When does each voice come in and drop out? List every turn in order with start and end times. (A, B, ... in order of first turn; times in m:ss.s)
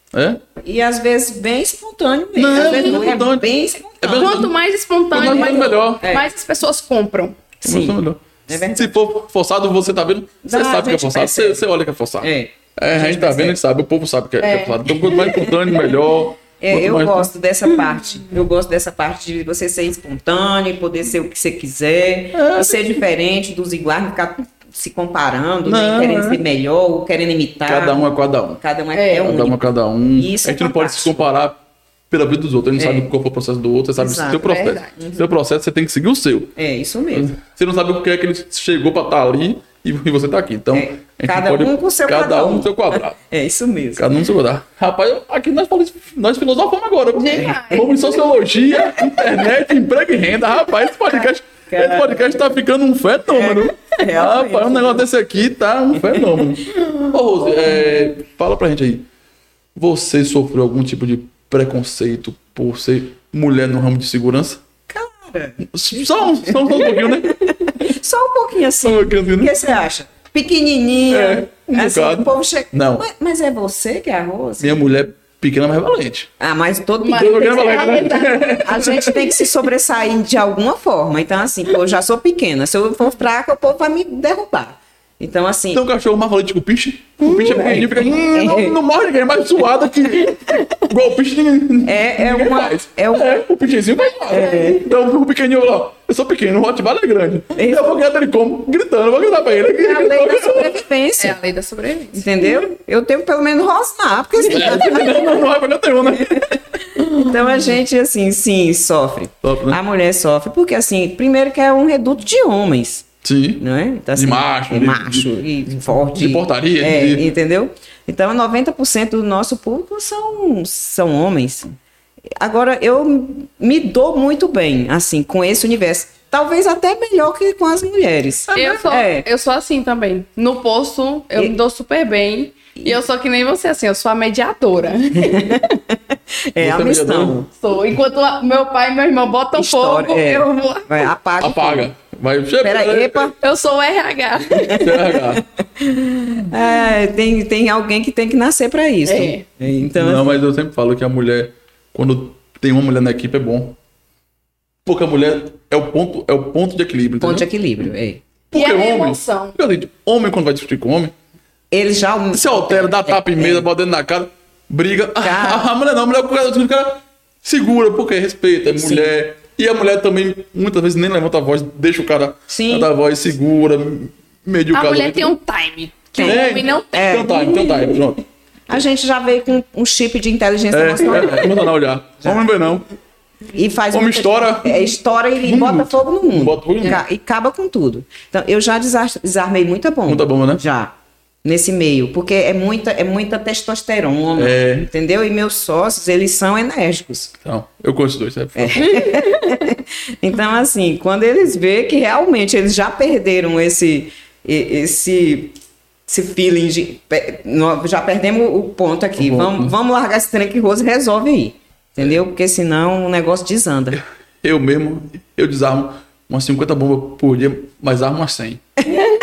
0:00.1-0:00.4 A
0:00.6-0:04.5 B
0:02.3-0:04.5 A
0:02.6-0:03.2 C
0:04.0-0:07.8 C
0:05.1-0:06.0 A
0:05.1-0:06.3 B
0:07.6-0:17.3 A
0:07.7-0:07.9 B
0:08.5-0:09.0 B
0:10.4-0:11.6 B
0:12.2-0:13.6 B
0:14.4-0:14.9 C
0:15.0-0:15.8 B
0:16.6-0:31.2 B
0:22.3-0:23.0 A
0:25.6-0:26.4 A
0:27.6-0:28.6 A
0:28.9-0:29.3 C
0:29.2-0:36.6 A
0:32.8-0:33.1 B
0:34.0-0:35.2 B
0:34.4-0:34.9 C
0:36.6-0:37.3 B
0:37.1-0:43.2 A
0:40.7-0:44.1 B
0:44.0-0:59.1 A
0:47.1-0:48.0 C
0:48.8-0:49.6 B
0:51.1-0:52.5 B
0:53.3-0:55.0 B
0:56.0-0:58.0 B
0:59.7-1:04.6 A
1:04.9-1:14.8 B
1:05.7-1:07.7 A
1:08.8-1:09.6 A
1:11.1-1:13.0 A
1:14.6-1:16.3 A
1:16.4-1:25.8 B
1:17.0-1:19.4 C
1:17.1-1:19.3 A
1:25.7-1:40.8 A
1:27.2-1:28.8 B
1:31.8-1:33.3 B
1:34.3-1:34.8 B
1:37.5-1:38.0 B
1:39.7-1:41.4 B
1:41.2-1:42.4 C
1:42.1-1:45.4 B
1:44.4-1:46.8 A
1:46.3-1:53.0 B
1:49.4-1:49.8 A
1:53.2-1:57.3 A
1:53.6-2:01.8 B
2:02.4-2:09.3 B
2:08.5-2:15.8 C
2:15.2-2:17.5 B
2:16.6-2:17.4 A
2:17.5-2:21.1 C
2:19.6-2:21.9 B
2:21.4-2:23.3 A
2:22.6-2:23.3 B
2:23.4-2:25.0 C
2:24.5-2:30.3 B
2:24.7-2:25.4 A
2:29.0-2:29.4 C
2:29.8-2:33.8 A
2:34.8-2:37.9 A
2:37.2-2:38.2 B
2:38.5-2:41.1 A
2:38.5-2:39.6 C
2:41.7-2:43.6 B
2:42.3-2:55.3 A
2:45.2-2:45.7 B
2:48.7-2:49.1 B
2:52.5-2:52.9 B
2:54.7-2:57.2 C
2:56.1-2:58.0 B
2:56.2-2:58.2 A
2:58.7-3:01.7 B
3:00.7-3:02.8 A
3:03.5-3:17.3 B
3:03.9-3:07.0 A
3:10.1-3:10.6 A
3:14.4-3:14.9 A
3:17.4-3:19.2 A
3:18.6-3:25.6 B
3:19.3-3:19.6 C
3:26.1-3:34.0 B
3:29.2-3:29.7 A
3:33.9-3:38.6 A